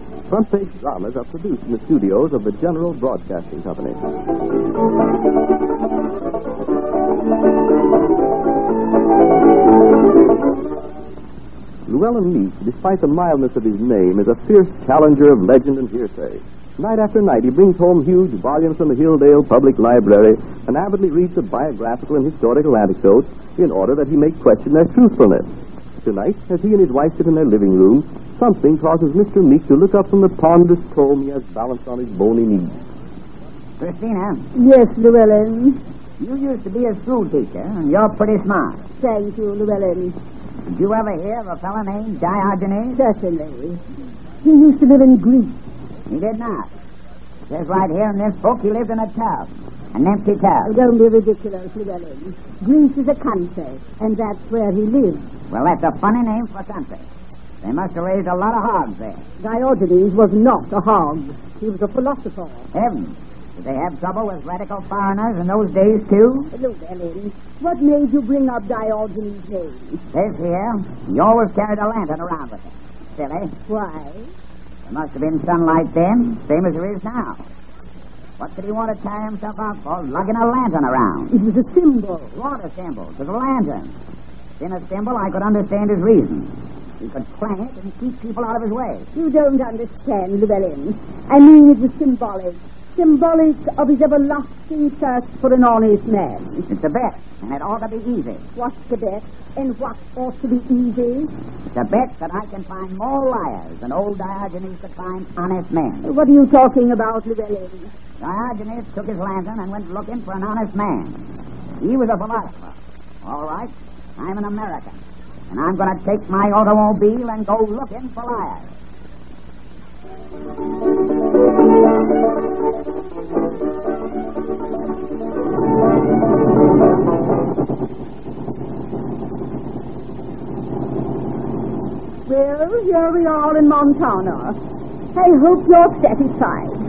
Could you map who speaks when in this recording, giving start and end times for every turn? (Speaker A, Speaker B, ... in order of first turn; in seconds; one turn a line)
Speaker A: 0.3-4.0
Speaker A: 11.9-25.5
Speaker A: 26.0-32.7
Speaker B: 33.8-34.5
Speaker C: 34.5-35.8
Speaker B: 36.2-38.8
Speaker C: 39.0-40.1
Speaker B: 40.7-43.0
Speaker C: 42.9-43.8
Speaker C: 44.4-45.5
Speaker B: 46.1-46.7
Speaker B: 47.5-50.8
Speaker C: 50.6-55.2
Speaker B: 55.5-57.0
Speaker B: 57.6-59.2
Speaker C: 59.4-62.6
Speaker B: 62.7-66.5
Speaker C: 66.5-70.0
Speaker B: 70.1-73.5
Speaker C: 73.7-74.3
Speaker B: 74.9-77.5
Speaker B: 78.4-81.3
Speaker C: 81.3-82.3
Speaker B: 82.3-83.9
Speaker B: 84.6-89.1
Speaker C: 89.1-96.7
Speaker B: 96.7-98.4
Speaker C: 98.6-101.3
Speaker B: 101.7-106.1
Speaker C: 106.0-107.9
Speaker B: 108.2-111.2
Speaker B: 111.8-115.0
Speaker B: 115.5-118.7
Speaker C: 132.3-134.6
Speaker C: 135.2-136.8